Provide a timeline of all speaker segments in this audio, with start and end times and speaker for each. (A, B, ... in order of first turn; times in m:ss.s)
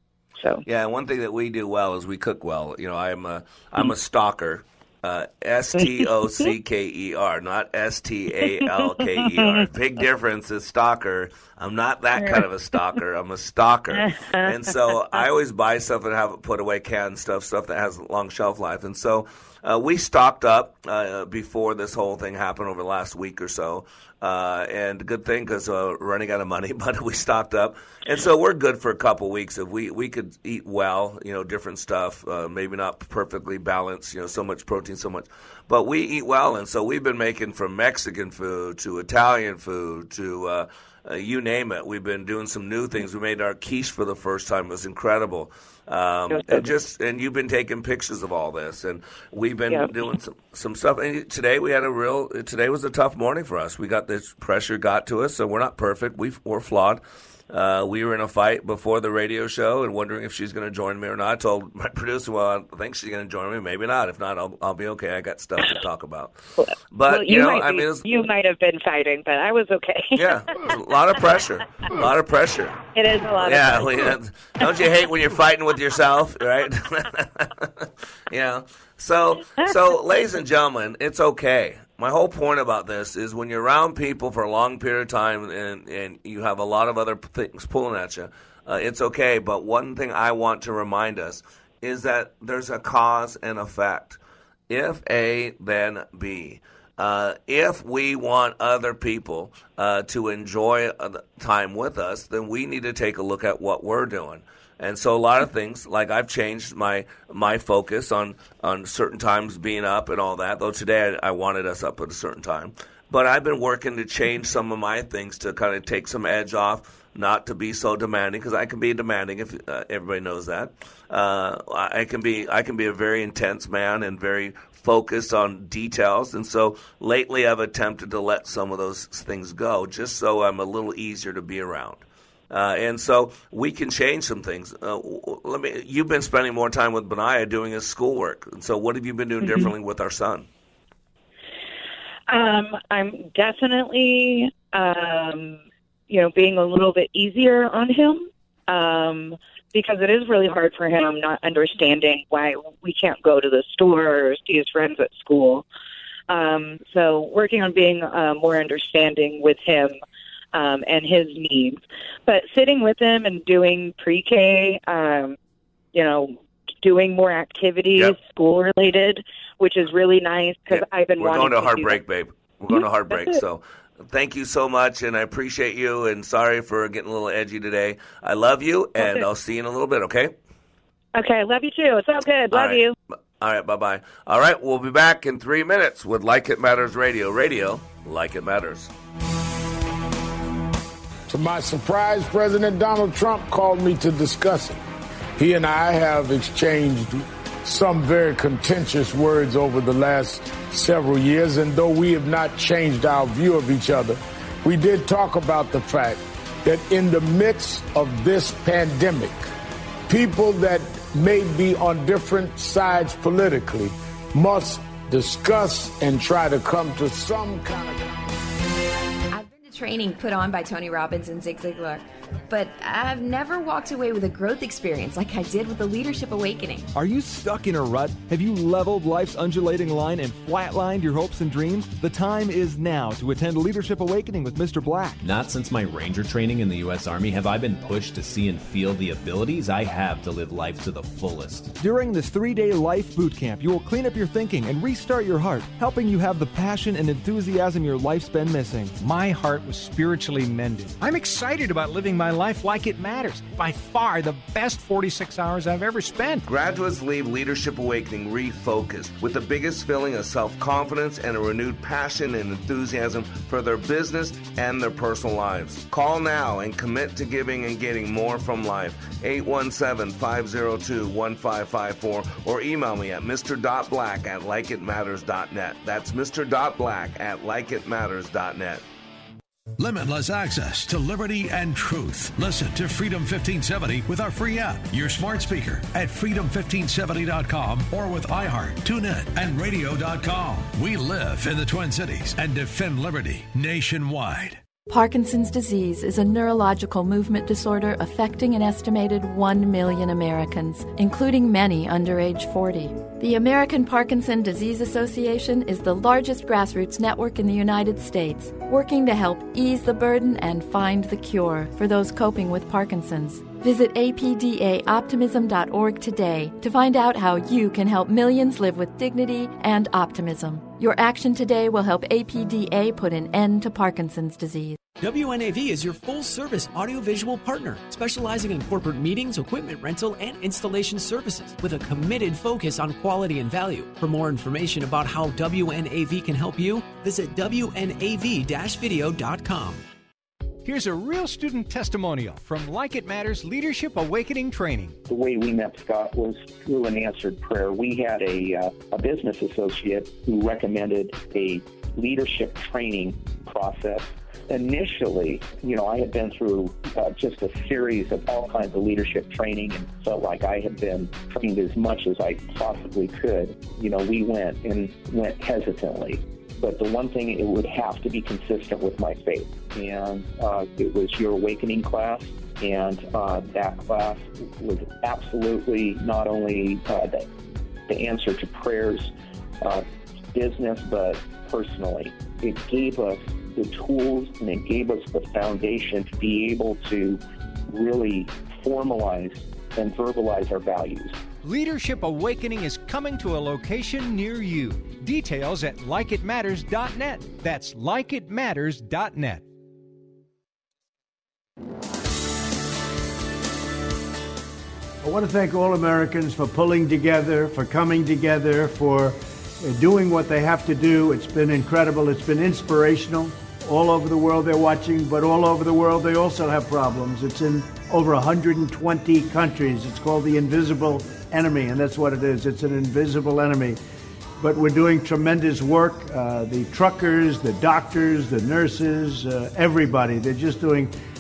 0:00.4-0:00.6 A
0:00.6-1:08.1 B
0:05.7-0:06.5 A
0:08.6-0:09.6 A
0:12.2-0:12.5 A
0:13.9-0:15.2 A
0:46.3-0:46.7 A
1:06.6-1:10.4 A
1:10.2-2:20.5 B
1:12.9-1:14.2 A
2:19.4-2:19.7 A
2:22.3-2:35.6 A
2:36.3-2:40.0 A
2:40.5-2:45.4 A
2:45.9-2:52.0 A
2:50.7-3:00.4 B
2:52.7-2:53.4 A
2:59.0-2:59.3 A
3:01.1-3:03.0 A
3:02.5-3:02.8 B
3:03.4-3:08.9 B
3:11.3-3:14.8 C
3:15.4-3:29.4 C
3:30.1-3:38.2 C
3:39.3-3:46.9 D
3:47.0-3:55.2 E
3:55.2-4:01.8 F
4:01.8-4:09.0 E
4:09.0-4:16.4 G
4:16.4-4:38.8 B
4:39.8-4:54.6 H
4:54.9-5:24.8 I
5:25.0-5:39.8 J
5:40.6-5:45.0 G
5:45.1-6:17.3 K
6:17.9-6:31.2 K
6:31.4-6:39.4 G
6:45.0-7:03.8 L
7:04.4-7:10.9 L